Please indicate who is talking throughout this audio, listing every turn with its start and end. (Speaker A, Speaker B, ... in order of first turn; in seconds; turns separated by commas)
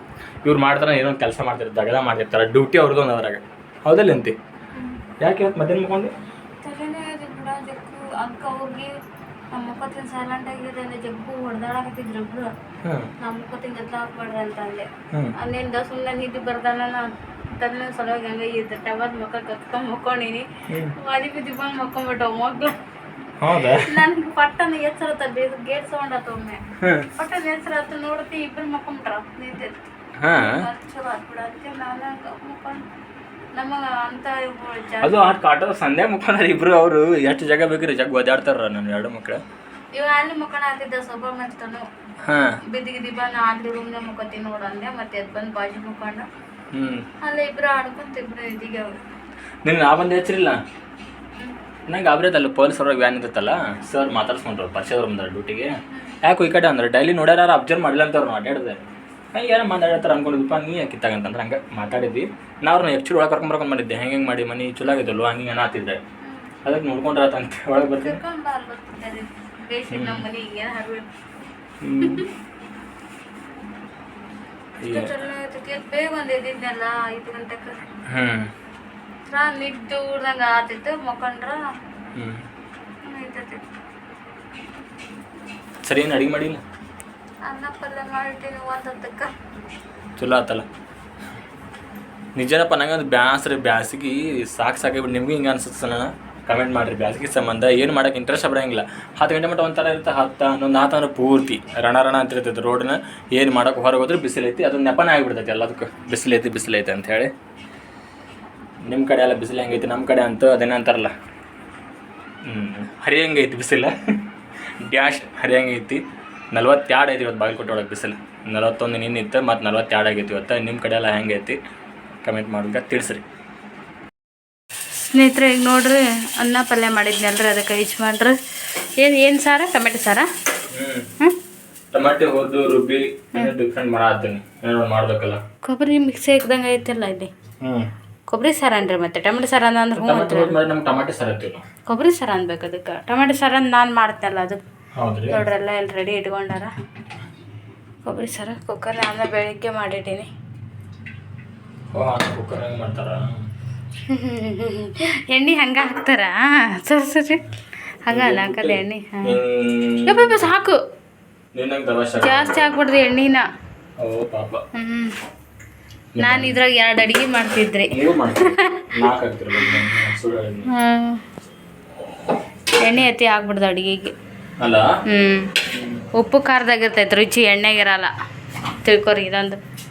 Speaker A: 0.4-4.3, Speaker A: 5.2-6.1, Speaker B: 6.6-9.0, Speaker B: 9.5-12.5, Speaker A: 12.8-13.1, Speaker B: 13.2-22.8, Speaker A: 20.7-20.9, Speaker A: 23.4-24.0, Speaker B: 23.5-26.6, Speaker A: 26.8-27.1, Speaker B: 27.1-32.8, Speaker A: 30.2-30.6, Speaker B: 33.5-35.2, Speaker A: 35.0-39.4, Speaker B: 39.9-41.9, Speaker A: 42.2-42.6, Speaker B: 42.7-46.2, Speaker A: 46.7-47.1, Speaker B: 47.2-49.0, Speaker A: 49.6-50.6, Speaker A: 51.9-66.0, Speaker B: 55.9-56.2, Speaker B: 66.2-66.5, Speaker A: 66.6-68.2, Speaker B: 67.8-71.1, Speaker A: 69.9-70.2, Speaker A: 71.8-72.2, Speaker B: 72.0-72.3, Speaker A: 74.8-75.1, Speaker B: 74.9-77.8, Speaker A: 78.0-78.5, Speaker B: 79.3-81.7, Speaker A: 82.1-82.5, Speaker B: 83.0-83.6, Speaker A: 85.8-86.6, Speaker B: 87.4-89.3, Speaker A: 90.2-90.7, Speaker A: 92.3-107.3, Speaker A: 108.8-111.1, Speaker A: 112.4-121.6, Speaker A: 122.2-123.2, Speaker B: 125.0-128.4, Speaker B: 129.0-130.3, Speaker A: 130.7-131.1, Speaker A: 131.9-135.4, Speaker B: 135.6-137.3, Speaker A: 137.6-137.9, Speaker B: 138.3-140.6, Speaker A: 139.9-141.6, Speaker B: 141.9-144.6, Speaker A: 144.9-145.4, Speaker B: 145.3-146.7, Speaker B: 148.0-150.3, Speaker A: 151.9-153.4, Speaker B: 154.1-157.5, Speaker B: 158.1-159.3, Speaker A: 158.1-160.5, Speaker B: 160.0-160.8, Speaker A: 161.5-162.7, Speaker B: 162.2-163.4, Speaker A: 164.0-164.6, Speaker B: 164.7-165.2, Speaker A: 166.1-166.6, Speaker B: 166.2-168.9, Speaker A: 167.9-170.7, Speaker B: 170.7-171.2, Speaker B: 172.8-174.1, Speaker A: 174.6-174.9, Speaker B: 175.1-175.6, Speaker A: 175.7-176.0, Speaker B: 176.1-178.1, Speaker B: 178.8-179.6